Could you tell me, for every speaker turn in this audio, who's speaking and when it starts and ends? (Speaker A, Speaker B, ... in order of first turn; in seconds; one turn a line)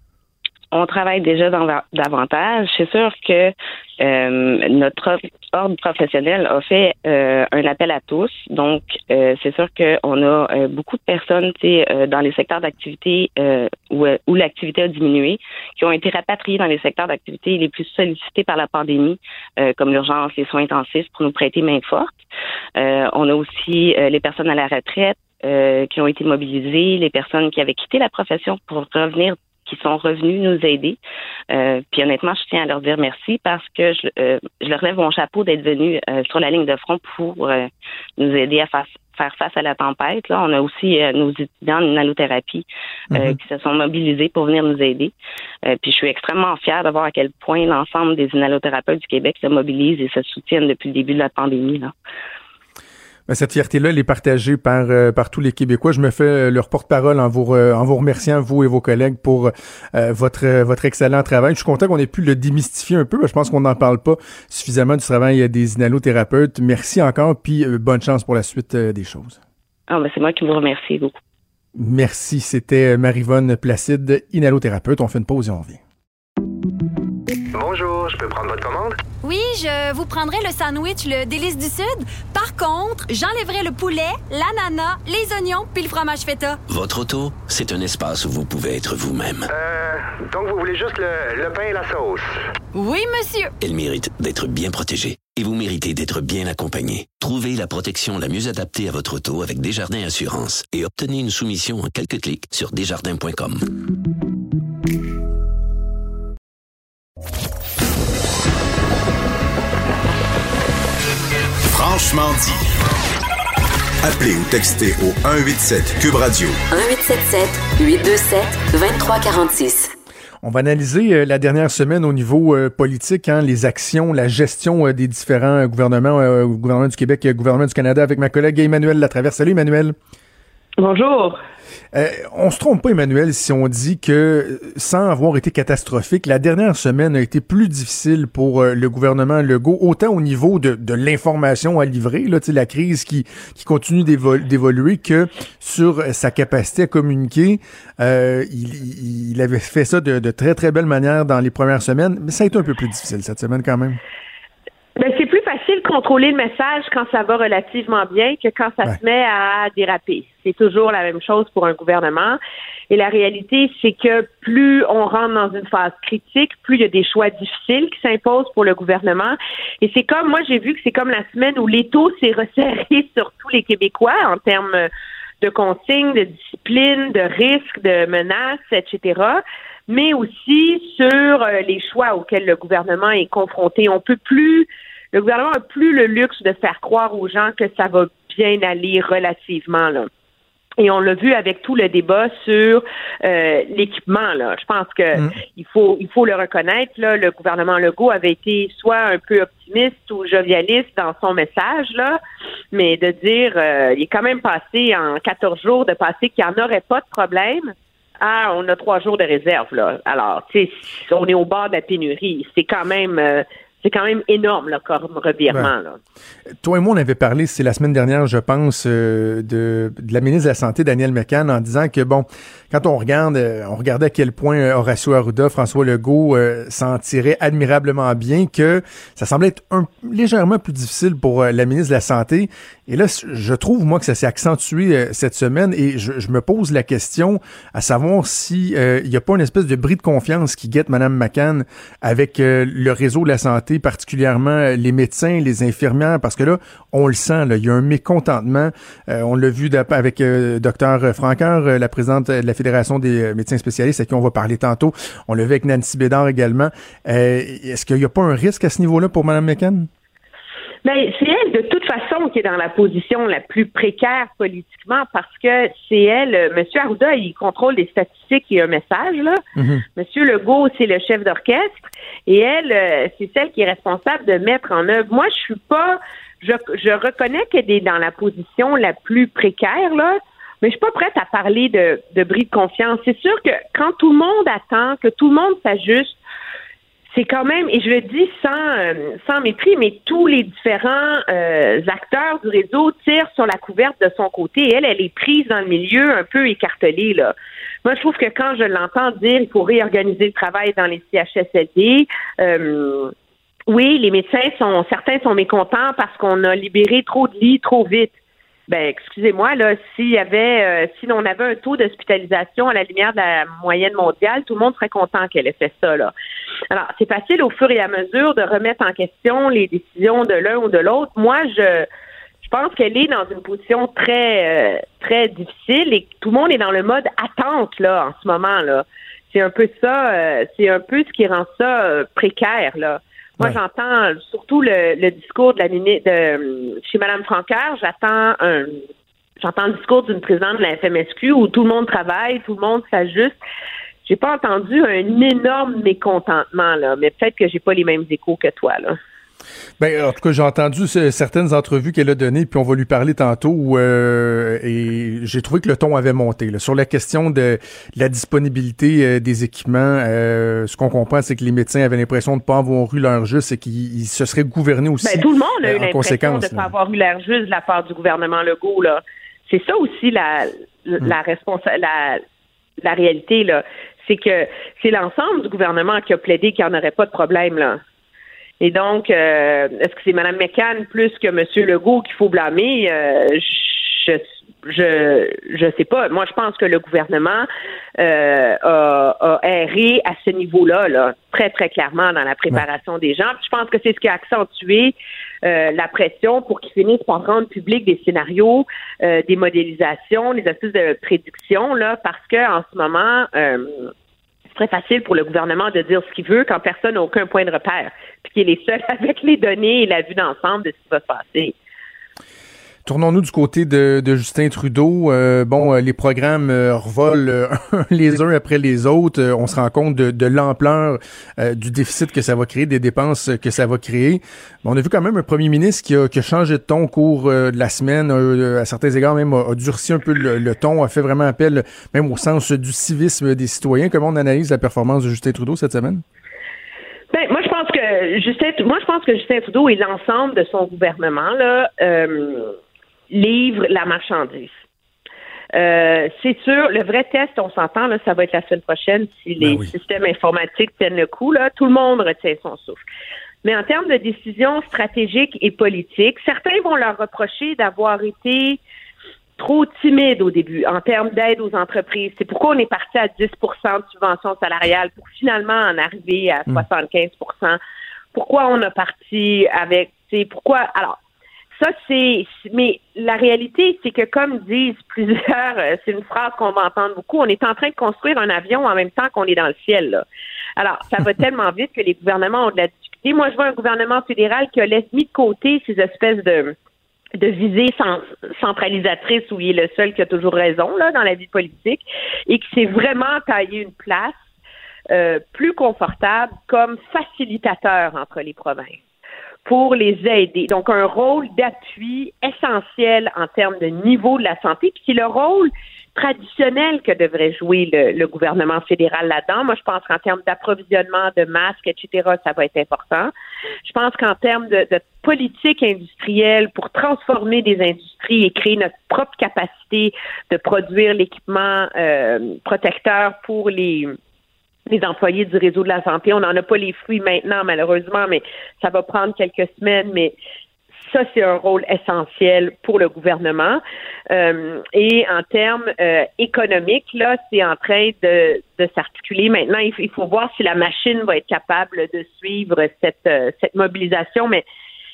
Speaker A: 0.7-22.1
Speaker A: 22.8-31.0
Speaker A: 31.5-45.1
Speaker B: 43.1-43.4
Speaker A: 45.6-51.9
Speaker B: 53.3-69.4
Speaker A: 69.9-71.2
Speaker B: 71.8-75.8
Speaker C: 77.5-79.0
Speaker D: 79.2-86.6
Speaker E: 86.7-89.5
Speaker C: 89.5-92.4
Speaker D: 92.7-93.5
Speaker E: 93.6-103.6
Speaker F: 111.7-112.6
Speaker F: 114.0-116.6
Speaker G: 116.7-119.9
Speaker B: 120.4-130.0
Speaker H: 130.8-131.4
Speaker B: 131.9-154.0
Speaker H: 155.0-162.4
Speaker H: 162.9-174.9
Speaker H: 175.4-190.1
Speaker H: 190.8-202.2
Speaker H: 202.7-216.0
Speaker B: 216.6-259.9
Speaker H: 260.9-269.4
Speaker B: 269.6-269.9
Speaker H: 270.0-286.2
Speaker H: 287.1-297.3
Speaker H: 297.8-303.1
Speaker H: 303.7-308.1
Speaker H: 308.7-316.1
Speaker H: 316.7-321.9
Speaker H: 322.4-338.7
Speaker H: 339.4-343.4
Speaker H: 344.1-349.0
Speaker B: 349.8-366.7
Speaker H: 365.0-372.2
Speaker H: 372.8-377.8
Speaker H: 378.6-387.5
Speaker H: 388.0-403.9
Speaker H: 404.5-411.6
Speaker B: 412.9-436.0
Speaker H: 437.1-442.6
Speaker H: 443.1-444.6
Speaker H: 445.6-452.8
Speaker B: 449.4-449.7
Speaker H: 453.4-458.6
Speaker H: 459.4-467.6
Speaker H: 468.1-471.0
Speaker H: 471.6-480.0
Speaker H: 480.6-486.6
Speaker H: 487.2-494.2
Speaker H: 494.9-498.8
Speaker H: 499.4-513.1
Speaker H: 513.6-524.0
Speaker H: 524.7-530.1
Speaker H: 530.9-544.4